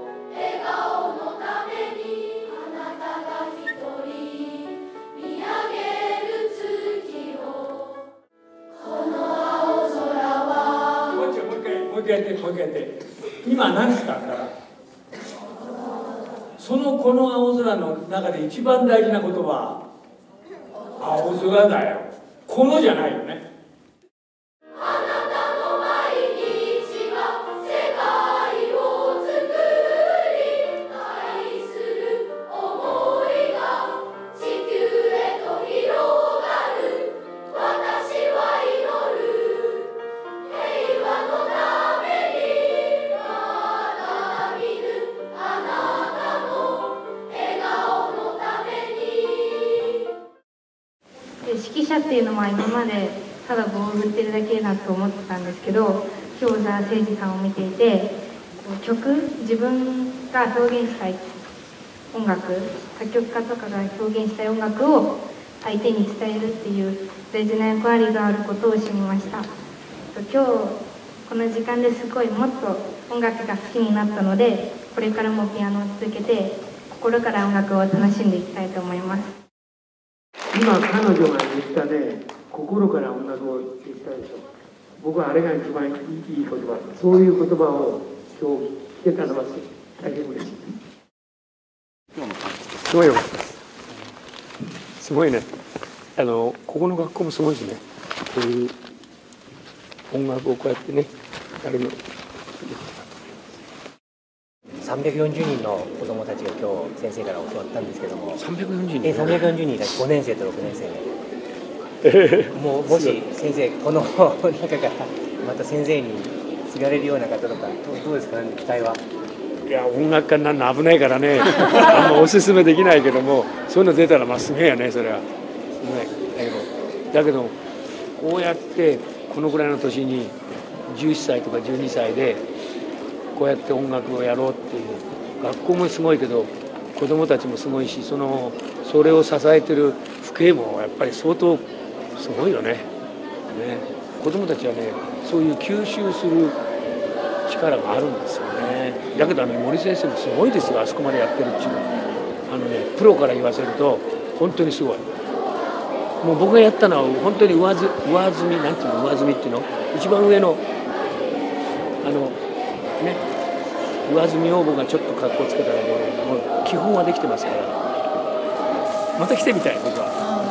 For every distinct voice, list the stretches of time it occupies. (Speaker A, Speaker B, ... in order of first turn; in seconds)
Speaker A: 6.5-7.3, 28.6-29.5, 33.0-33.6, 34.6-36.8, 37.9-39.5, 51.4-61.2, 62.1-69.5, 70.1-79.3
Speaker B: 11.0-14.5, 16.6-19.8, 21.0-23.4, 80.5-84.5, 85.0-90.7, 92.8-93.5, 95.0-95.5, 96.2-98.7, 100.1-101.1, 101.6-102.0, 102.6-103.0, 108.4-109.5, 112.0-113.2, 119.6-125.2, 125.8-127.6, 128.2-130.3, 130.9-132.4, 133.3-141.6, 142.2-142.9, 143.5-146.6, 147.5-151.9, 152.5-155.1, 156.2-160.6, 162.0-162.4, 163.0-163.2, 164.1-167.9, 169.1-170.3
Speaker C: 104.8-108.4, 109.0-111.1, 112.5-119.0